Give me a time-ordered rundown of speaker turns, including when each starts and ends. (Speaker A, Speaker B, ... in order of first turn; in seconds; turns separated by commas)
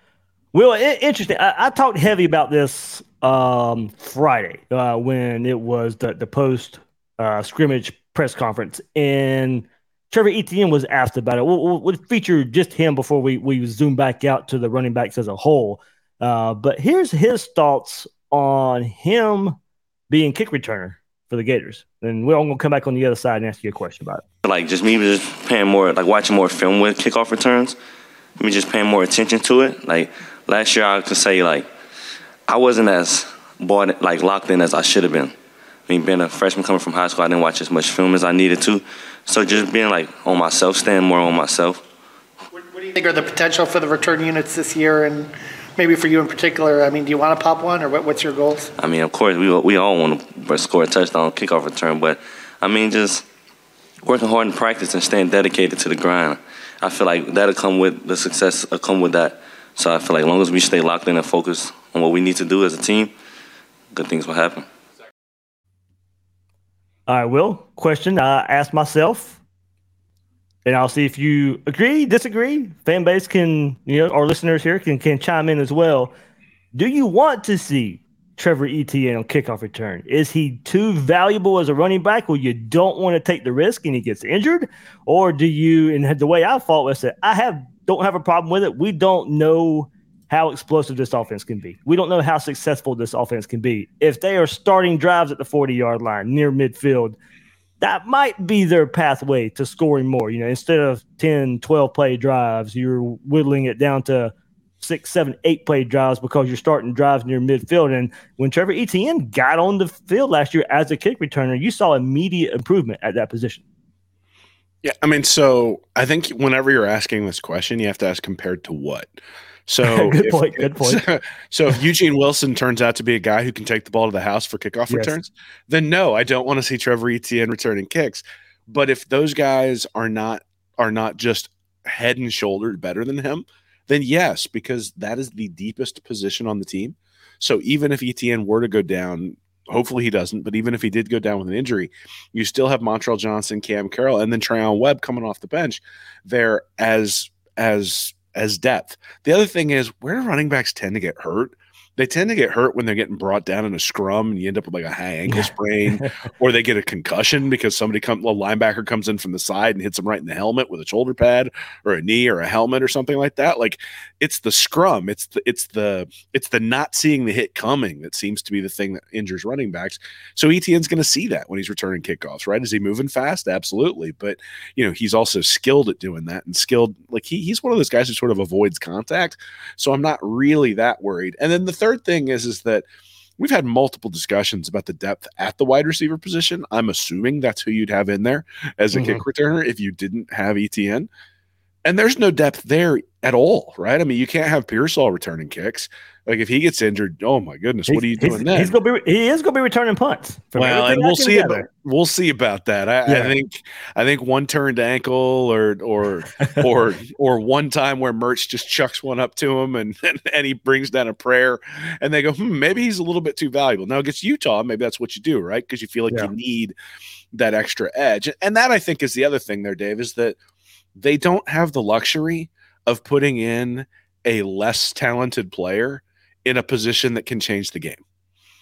Speaker A: 0.5-19.6, Speaker A: 20.1-24.2, Speaker B: 24.4-27.8, Speaker B: 28.4-31.7, Speaker B: 32.5-35.3, Speaker B: 35.9-41.8, Speaker C: 42.5-48.7, Speaker B: 48.8-53.2, Speaker B: 54.0-63.1, Speaker B: 63.9-64.7, Speaker A: 67.1-69.4, Speaker A: 70.7-76.1, Speaker A: 76.7-97.2, Speaker A: 97.8-113.6, Speaker D: 114.8-119.2, Speaker D: 119.7-182.8, Speaker A: 119.8-121.0, Speaker A: 124.9-125.2, Speaker A: 155.3-156.1, Speaker D: 183.4-191.1, Speaker A: 188.9-189.2, Speaker D: 191.8-198.7, Speaker A: 197.9-201.7, Speaker D: 200.6-216.8, Speaker A: 203.1-203.3, Speaker D: 217.3-220.4, Speaker D: 221.0-228.0